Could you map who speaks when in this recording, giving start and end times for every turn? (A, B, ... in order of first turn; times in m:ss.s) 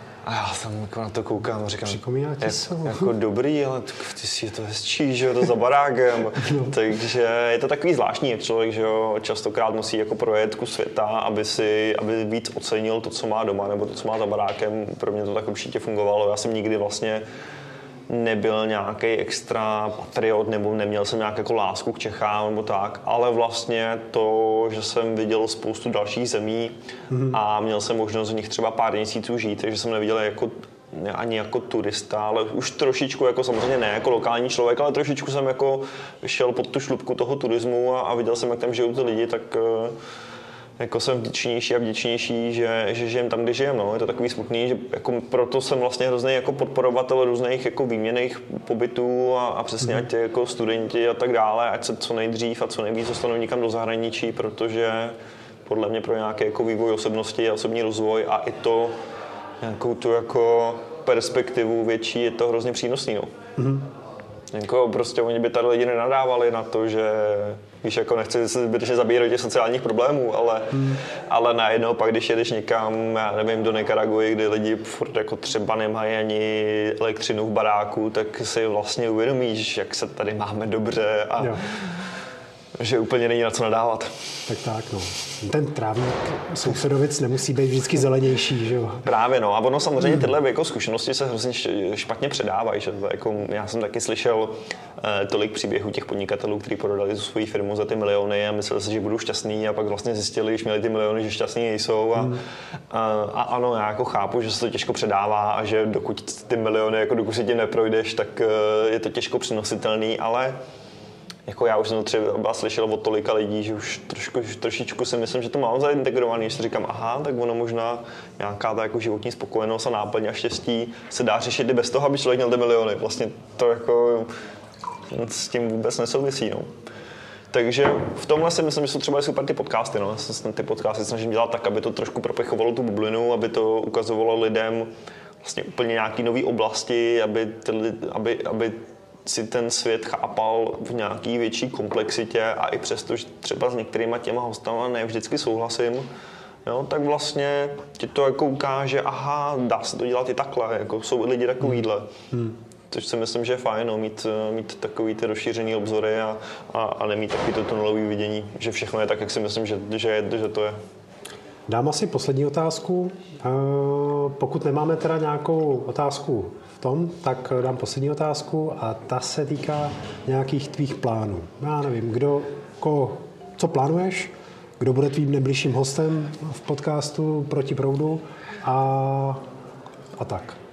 0:00.2-0:17.2 A
0:01.8-0:03.1 B
0:06.4-0:06.7 B
0:18.1-0:26.7 A
0:27.1-0:27.4 B
0:27.2-0:40.0 A
0:40.8-0:59.0 A
0:59.6-1:03.3 A
1:03.6-1:03.8 B
1:04.5-1:21.9 A
1:22.8-1:24.1 A
1:24.5-1:29.1 B
1:29.0-1:50.6 A
1:51.5-2:04.3 A
2:05.1-2:06.7 A
2:07.5-2:14.9 A
2:15.4-2:26.0 A
2:26.6-2:32.1 A
2:32.9-2:40.8 A
2:41.7-2:59.4 B
3:00.2-3:00.6 B